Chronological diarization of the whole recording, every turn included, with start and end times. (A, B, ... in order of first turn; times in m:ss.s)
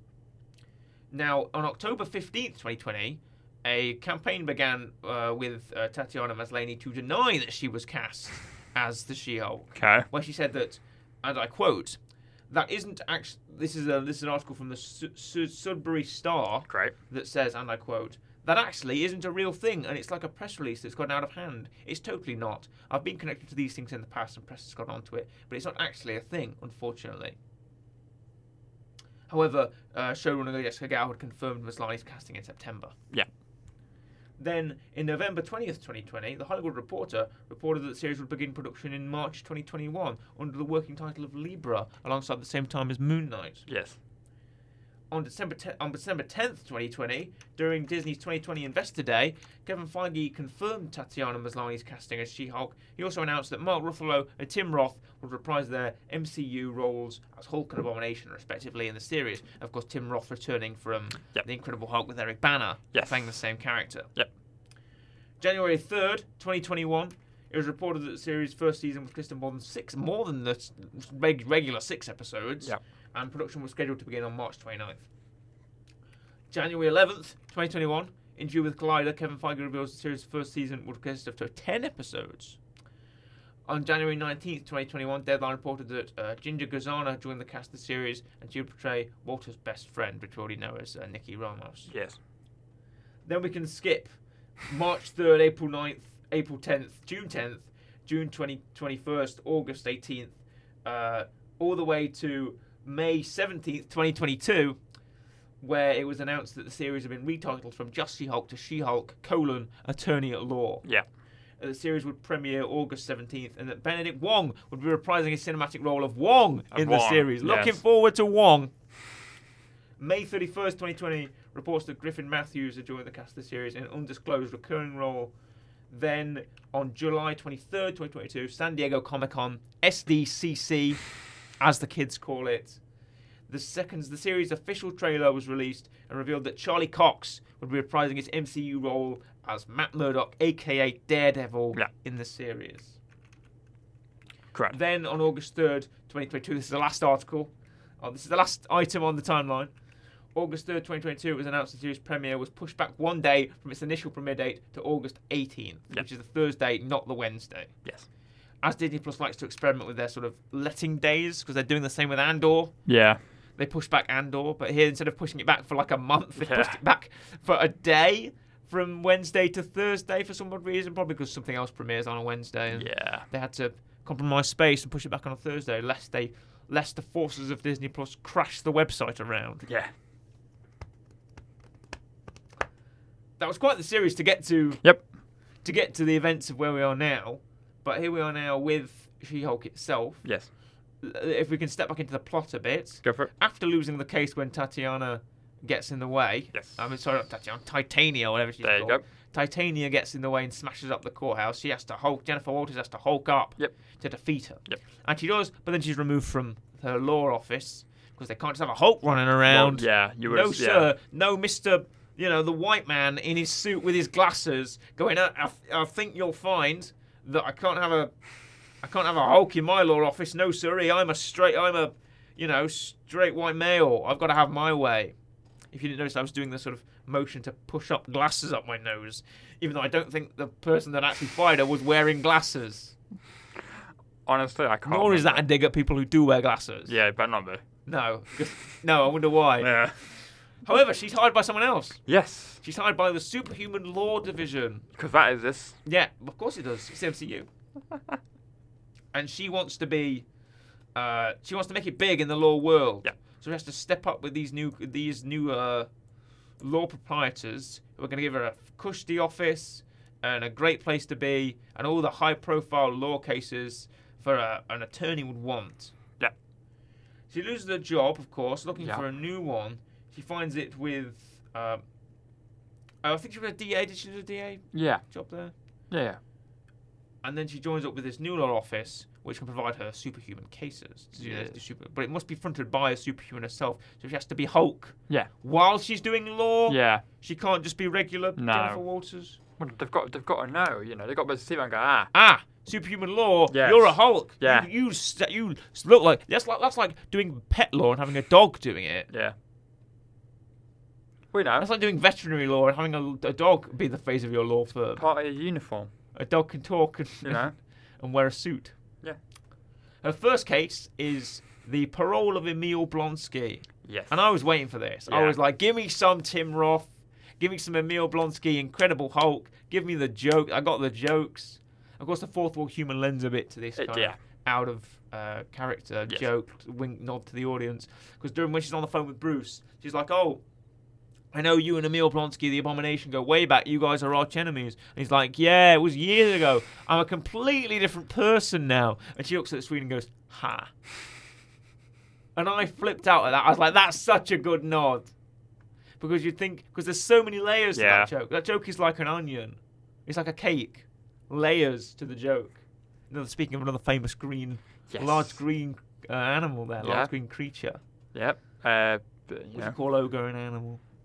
0:01.1-0:12.0 A
0:09.8-0:10.1 B
0:12.5-0:27.4 A
0:16.7-0:16.9 B
0:29.3-0:33.0 A
0:34.4-0:43.7 A
0:43.7-0:44.0 B
0:45.1-1:04.1 A
1:02.9-1:03.2 B
1:05.4-1:15.0 A
1:16.5-1:22.6 A
1:23.7-1:31.9 A
1:31.9-1:32.2 B
1:33.3-1:44.8 A
1:45.6-1:50.8 A
1:51.6-1:58.7 A
1:56.7-1:57.8 B
2:00.0-2:05.3 A
2:05.9-2:11.0 A
2:11.6-2:12.8 A
2:13.5-2:23.0 A
2:24.7-2:29.7 A
2:30.4-2:37.7 A
2:38.6-2:42.7 A
2:42.9-2:43.2 B
2:43.6-2:59.7 A
2:46.4-2:46.8 B
2:52.7-2:53.3 B
2:59.6-2:59.9 B
3:03.4-3:04.8 A
3:05.6-3:10.2 A
3:10.2-3:10.5 B
3:11.0-3:38.1 A
3:13.0-3:13.3 B
3:16.5-3:16.8 B
3:18.6-3:19.0 B
3:29.5-3:30.9 B
3:38.8-3:45.2 A
3:45.7-3:53.0 A
3:54.3-3:55.4 B
3:54.9-3:57.0 A
3:56.9-3:57.6 B
3:57.9-3:59.8 A
3:59.6-4:00.0 B
4:00.6-4:02.0 A
4:02.1-4:02.6 B
4:02.6-4:04.9 A
4:05.0-4:05.8 B
4:05.8-4:07.5 A
4:09.1-4:10.2 A
4:11.0-4:15.9 A
4:16.6-4:25.9 A
4:27.3-4:31.8 A
4:28.8-4:29.0 B
4:33.0-4:35.5 A
4:34.7-4:35.0 B
4:35.9-4:36.2 B
4:37.2-4:49.4 A
4:41.2-4:41.6 B
4:46.7-4:47.0 B
4:48.4-4:48.8 B
4:49.6-4:52.1 B
4:52.1-4:59.1 A
4:53.5-4:54.7 B
4:59.1-4:59.4 B
5:01.3-5:01.7 B
5:01.6-5:05.0 A
5:05.0-5:05.9 B
5:06.2-5:07.4 A
5:07.2-5:07.5 B
5:08.0-5:08.8 A
5:10.0-5:16.9 A
5:13.8-5:14.2 B
5:15.1-5:15.4 B
5:17.4-5:30.4 A
5:23.8-5:24.2 B
5:31.3-5:40.7 A
5:42.4-5:45.1 A
5:46.0-5:57.8 A
5:47.8-5:48.1 B
5:54.9-5:55.3 B
5:56.8-5:57.1 B
5:58.1-5:59.8 B
5:59.5-6:00.8 A